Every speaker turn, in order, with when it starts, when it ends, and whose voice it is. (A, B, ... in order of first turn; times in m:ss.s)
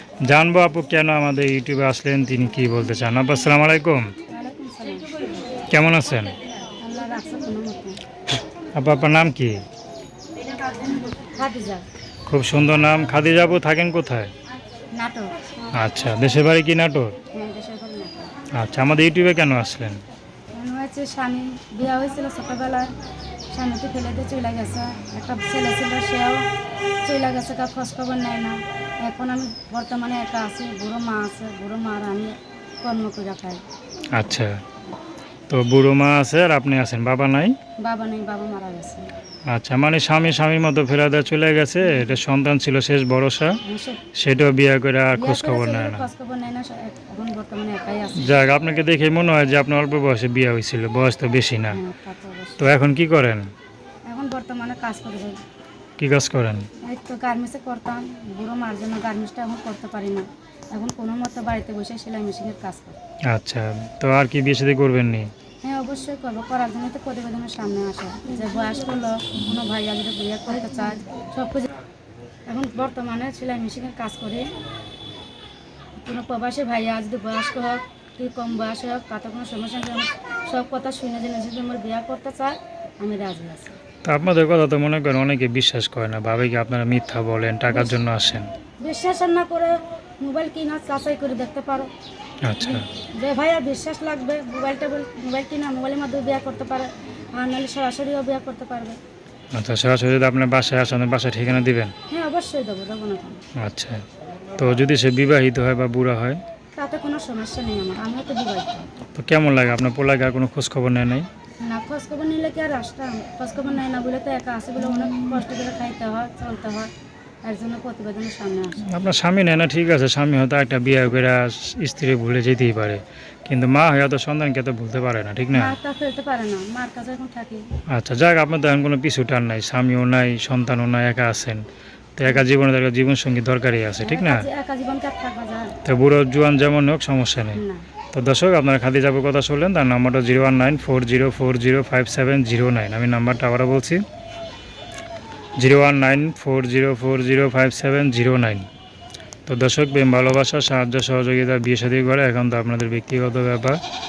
0:00.2-0:04.1 A
0:04.3-0:05.4 B
0:05.7-0:06.4 A
0:06.8-0:08.0 B
0:08.7-0:09.6 A
0:10.5-0:11.8 B
0:12.3-0:14.3 A
0:14.9-0:15.5 B
0:15.7-0:17.2 A
0:17.3-0:18.3 B
0:18.5-0:20.0 A
0:20.5-0:22.9 B
0:23.5-0:26.4 B
0:27.0-0:33.6 B
0:34.1-0:34.6 A
0:35.5-0:37.6 A
0:37.8-0:39.1 B
0:39.5-0:43.6 A
0:43.6-0:44.0 B
0:44.2-0:46.1 A
0:45.2-0:48.4 B
0:48.2-0:51.8 A
0:51.7-0:52.6 B
0:52.6-0:53.5 A
0:54.1-0:55.4 B
0:56.0-0:56.7 A
0:56.8-1:03.0 B
1:03.3-1:05.3 A
1:05.6-1:11.7 B
1:12.5-1:14.4 B
1:16.0-1:23.8 B
1:24.0-1:28.5 A
1:27.7-1:28.0 B
1:28.8-1:31.9 B
1:32.4-1:32.9 A
1:32.6-1:39.0 B
1:39.5-1:41.9 A
1:42.1-1:43.4 B
1:43.6-1:44.0 A
1:44.6-1:46.4 A
1:46.8-1:48.9 B
1:49.2-1:51.3 A
1:51.6-1:56.9 B
1:57.4-1:58.8 B
1:58.8-2:05.8 A
2:05.5-2:07.6 B
2:07.9-2:11.6 A
2:12.2-2:14.5 A
2:14.0-2:15.8 B
2:15.8-2:17.6 A
2:17.6-2:17.9 B
2:18.1-2:24.0 A
2:25.6-2:28.7 A
2:29.5-2:33.8 A